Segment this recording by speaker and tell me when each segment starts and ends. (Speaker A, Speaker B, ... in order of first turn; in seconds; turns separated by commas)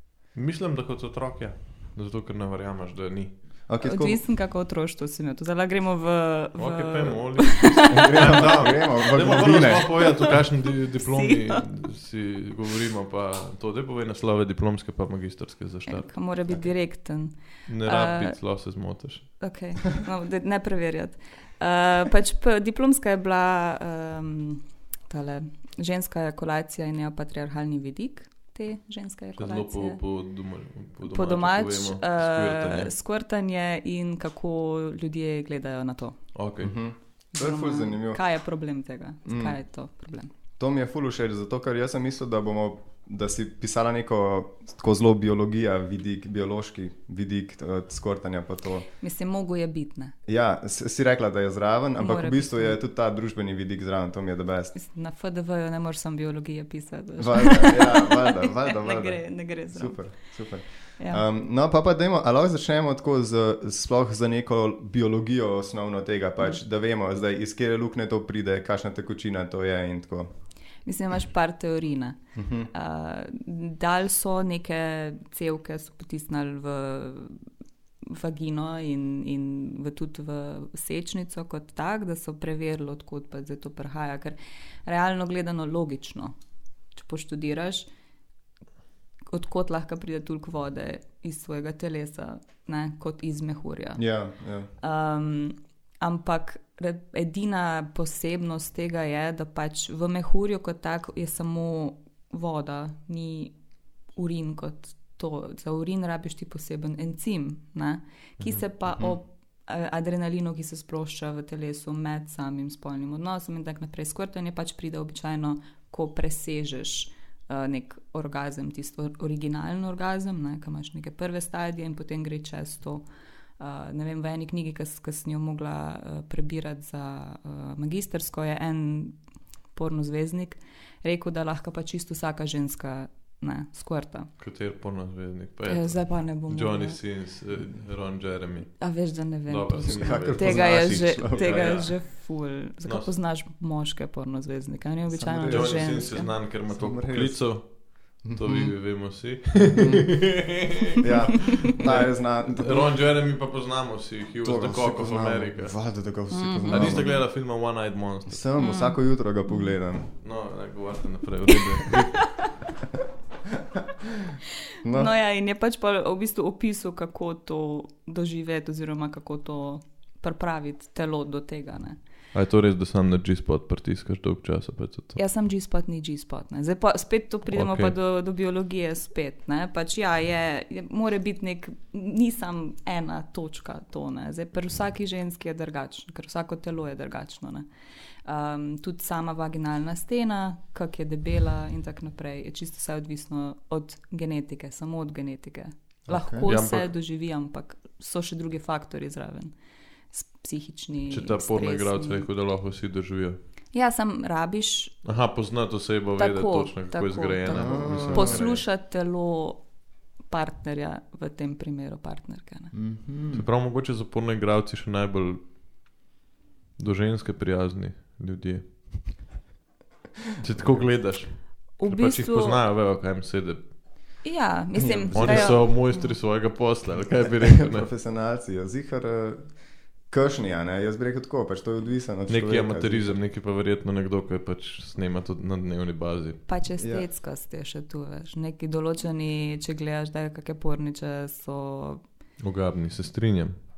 Speaker A: 0.3-3.6, Speaker B: 3.7-4.2, Speaker C: 3.8-8.4, Speaker A: 6.6-16.2, Speaker B: 7.9-10.0, Speaker C: 9.8-10.3, Speaker C: 11.0-11.7, Speaker C: 15.9-18.4, Speaker A: 17.6-19.4, Speaker C: 19.4-30.0, Speaker A: 29.4-32.9, Speaker C: 31.0-36.2, Speaker A: 36.3-36.8, Speaker B: 36.6-38.2, Speaker C: 37.3-40.3, Speaker B: 39.2-39.6, Speaker B: 40.6-48.9, Speaker C: 49.0-50.1, Speaker B: 50.3-54.7, Speaker C: 52.0-52.8, Speaker C: 54.7-60.3, Speaker B: 57.2-70.3, Speaker C: 61.0-61.2, Speaker C: 70.8-72.2, Speaker B: 72.3-72.7, Speaker C: 72.7-77.4, Speaker C: 78.0-86.3, Speaker C: 86.9-87.9, Speaker C: 89.3-94.0, Speaker B: 94.0-94.7, Speaker C: 94.8-103.5, Speaker C: 104.1-123.0, Speaker A: 108.4-108.6, Speaker B: 108.9-109.2, Speaker C: 123.6-129.2, Speaker C: 129.7-134.3, Speaker A: 134.4-142.2, Speaker C: 135.7-137.0, Speaker C: 138.8-146.3, Speaker B: 139.8-141.9, Speaker A: 142.8-143.1, Speaker B: 145.1-146.1, Speaker A: 145.5-155.9, Speaker B: 146.7-148.8, Speaker B: 149.7-152.9, Speaker B: 154.4-157.2, Speaker C: 156.3-157.2, Speaker A: 156.7-158.4, Speaker B: 158.3-160.1, Speaker C: 158.6-159.7, Speaker A: 160.2-162.6, Speaker C: 161.5-161.9, Speaker B: 164.8-165.1, Speaker C: 164.9-172.0, Speaker A: 172.3-175.2, Speaker C: 175.2-187.7, Speaker A: 177.5-177.9, Speaker C: 188.2-199.5, Speaker B: 196.1-196.5, Speaker A: 196.4-196.9, Speaker C: 200.1-202.3, Speaker A: 201.1-203.4, Speaker C: 203.7-205.0, Speaker A: 205.0-208.6, Speaker C: 206.2-212.7, Speaker B: 207.5-208.5, Speaker B: 212.7-213.4, Speaker A: 213.3-215.4, Speaker A: 216.8-219.2, Speaker A: 220.4-224.2, Speaker B: 220.6-220.9, Speaker C: 221.8-222.6, Speaker C: 224.2-226.1, Speaker B: 224.7-225.7, Speaker A: 225.1-227.9, Speaker B: 227.4-233.2, Speaker A: 232.3-236.4, Speaker C: 236.5-242.0, Speaker B: 236.8-237.1, Speaker A: 242.4-243.6